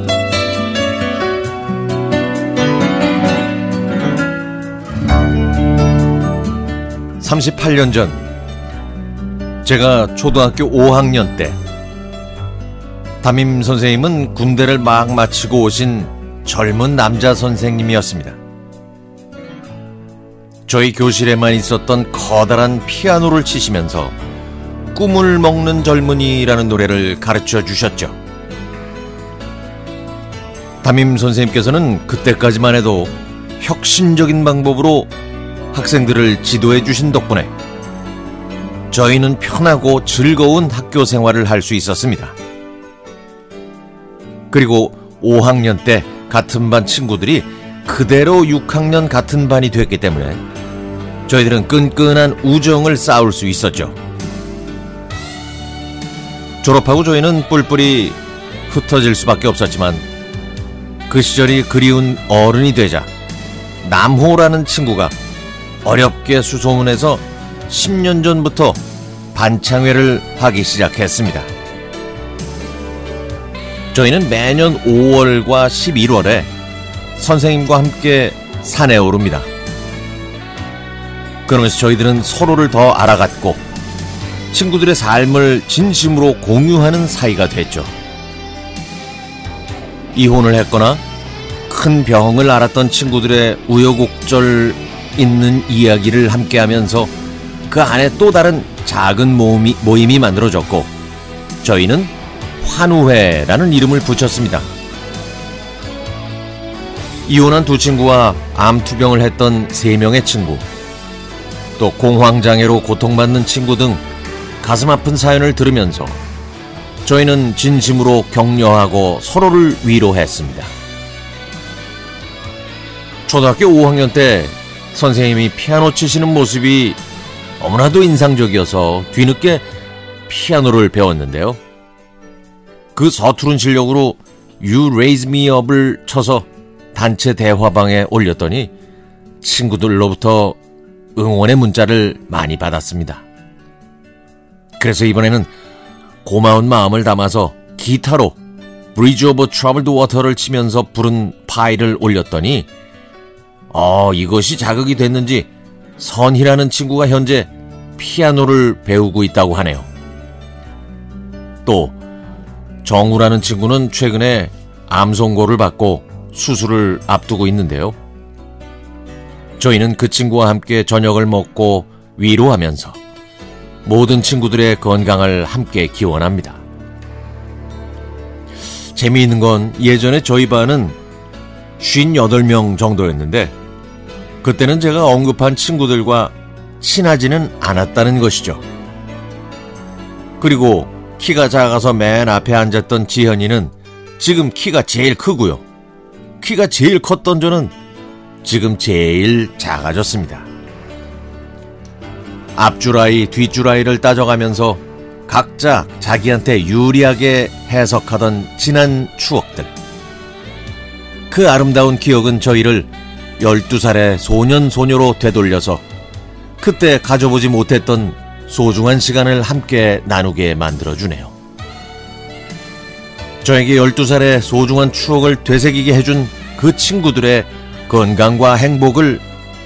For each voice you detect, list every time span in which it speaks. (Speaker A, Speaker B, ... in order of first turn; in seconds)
Speaker A: 7.2-8.3, 9.6-11.6, 13.2-18.4, 20.7-24.1, 24.9-28.2, 30.8-35.1, 35.7-37.5, 38.9-42.4, 44.5-50.4, 51.3-54.0, 56.6-60.0, 61.1-63.1, 63.8-65.1, 65.8-68.8, 69.3-71.5, 73.9-76.5, 77.2-79.5, 81.5-83.7, 84.5-87.9, 90.1-91.0, 91.7-97.1, 97.7-100.9, 101.6-104.7, 107.3-110.7, 111.8-114.0, 114.6-116.2, 117.0-120.7, 123.3-127.0, 127.6-129.6, 130.3-131.6, 132.9-138.7, 139.4-140.6, 141.2-143.2, 144.8-145.5, 146.2-148.4, 148.9-152.7, 153.7-159.9, 161.7-161.9, 162.8-168.0, 169.6-173.0, 173.8-176.6, 178.9-181.0, 181.8-183.5, 184.4-188.6, 190.4-195.6, 196.4-197.7, 198.4-200.5, 202.6-209.7, 211.3-215.8, 216.6-221.3, 223.4-229.2